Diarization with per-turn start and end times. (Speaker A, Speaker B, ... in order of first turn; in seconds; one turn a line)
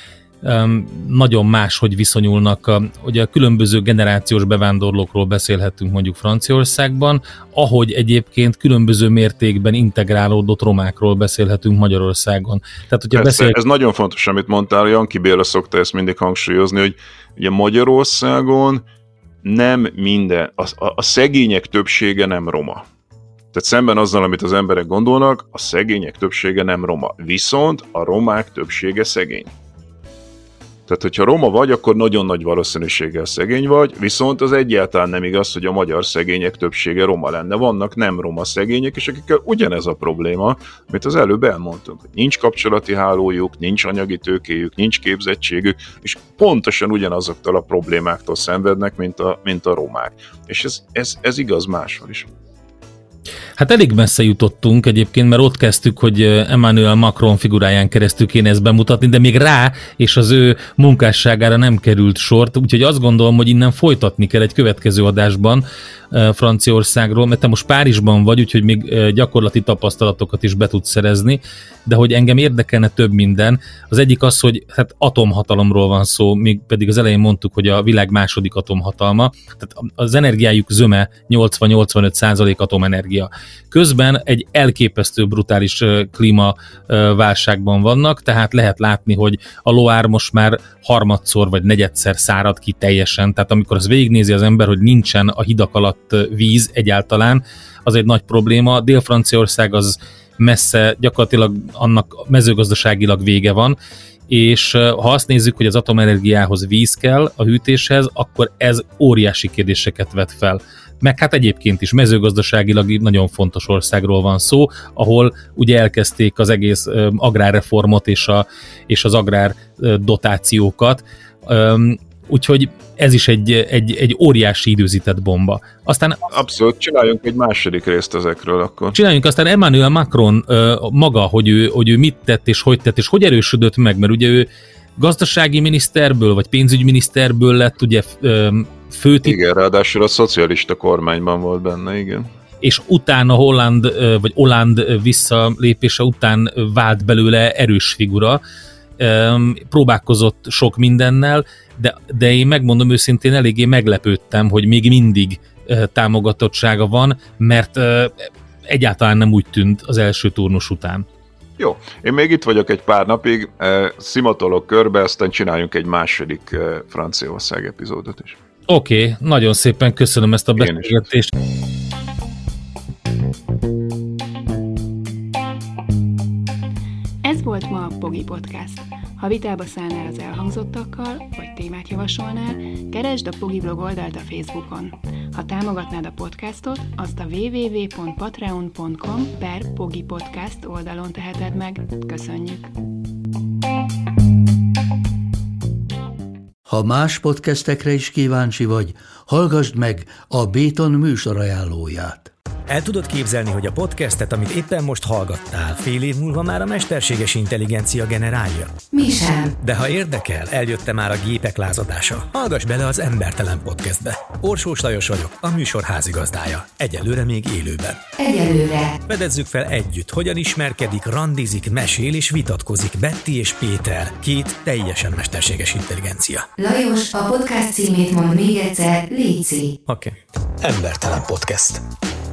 Speaker A: 0.4-13.6
Speaker B: 13.1-18.8
Speaker B: 19.4-22.9
Speaker B: 23.5-29.5
Speaker B: 30.9-52.3
Speaker A: 53.6-103.8
Speaker A: 104.3-126.3
Speaker B: 126.3-129.0
Speaker A: 128.9-139.3
Speaker B: 139.2-142.3
Speaker A: 142.6-148.4
Speaker A: 149.0-161.1
Speaker B: 161.6-168.4
Speaker A: 168.7-171.3
Speaker B: 170.6-171.0
Speaker C: 177.2-192.7
Speaker D: 196.7-202.3
Speaker E: 202.7-208.7
Speaker F: 208.9-209.5
Speaker E: 209.6-218.0
Speaker F: 218.2-219.0
Speaker E: 219.1-226.5
Speaker F: 226.6-229.7
Speaker E: 229.8-231.8